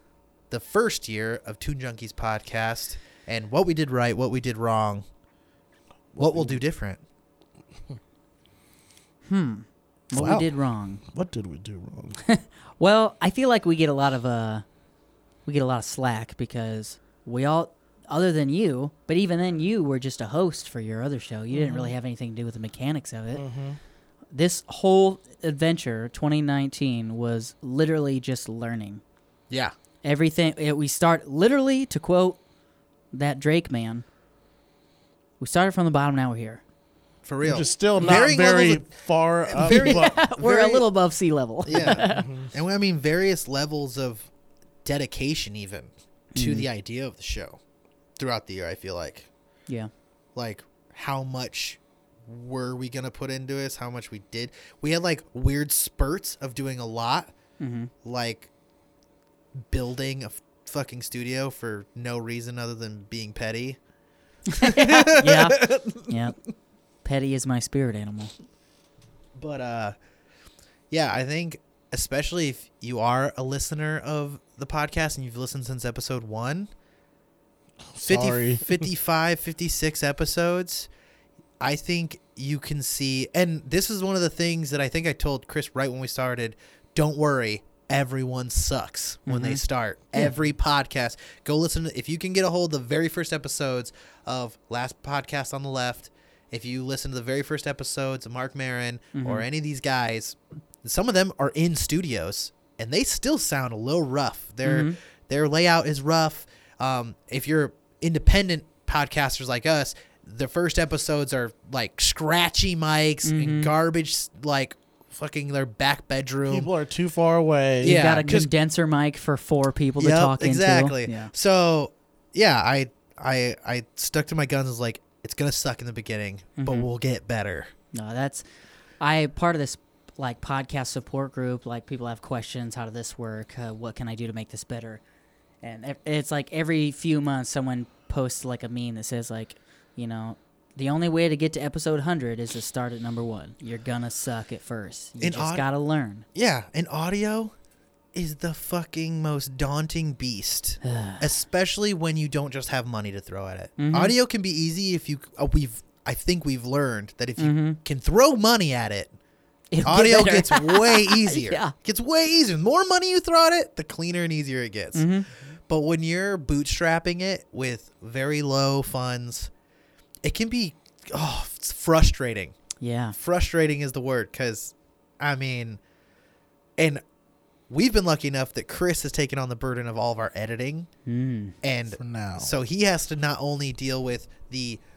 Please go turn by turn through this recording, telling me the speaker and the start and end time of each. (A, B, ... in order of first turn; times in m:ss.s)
0:00.5-0:05.1 A
0:06.2-0:07.0 A
0:06.2-0:06.6 B
0:09.3-0:11.0 C
0:10.1-0:10.5 B
0:11.1-0:12.2 B
0:12.2-0:14.6 C
0:15.5-0:23.4 C
0:21.5-0:21.9 B
0:23.4-0:23.8 B
0:24.3-0:29.0 C
0:30.0-0:32.4 C
0:33.1-0:34.0 C
0:35.4-0:36.6 C
0:37.2-0:38.8 A
0:37.4-0:40.2 B
0:38.0-0:38.2 C
0:39.5-0:40.8 A
0:39.6-0:42.3 C
0:41.6-0:44.3 A
0:41.7-0:42.5 B
0:44.8-0:47.6 A
0:46.3-0:46.7 C
0:48.2-0:49.3 A
0:50.4-0:57.4 A
0:57.6-0:57.9 C
0:58.0-0:58.5 A
0:59.6-1:03.8 A
1:04.5-1:06.4 C
1:04.6-1:06.0 A
1:07.0-1:08.3 C
1:09.4-1:10.0 A
1:10.9-1:16.7 A
1:17.9-1:18.9 B
1:18.1-1:20.9 A
1:21.6-1:56.7 A
1:29.3-1:29.6 C
1:39.1-1:39.4 C
1:44.6-1:45.0 C
1:53.2-1:53.7 C
1:56.5-1:58.0 B
1:57.8-1:58.5 A
1:57.8-2:01.3 C
2:00.0-2:07.7 A
2:06.6-2:06.9 C
2:07.9-2:08.4 C
2:09.0-2:15.0 C
2:15.6-2:26.3 C
2:25.2-2:25.6 A
2:26.3-2:27.5 A
2:28.1-2:39.2 A
2:30.8-2:31.3 C
2:33.8-2:34.2 C
2:37.4-2:37.8 C
2:39.7-2:41.7 C
2:39.8-2:45.1 A
2:45.0-2:45.3 C
2:45.7-2:49.5 A
2:50.2-2:52.6 A
2:52.8-2:53.2 C
2:53.2-2:55.8 A
2:57.7-3:00.9 A
3:01.1-3:01.6 C
3:01.6-3:04.8 A
3:02.0-3:02.5 B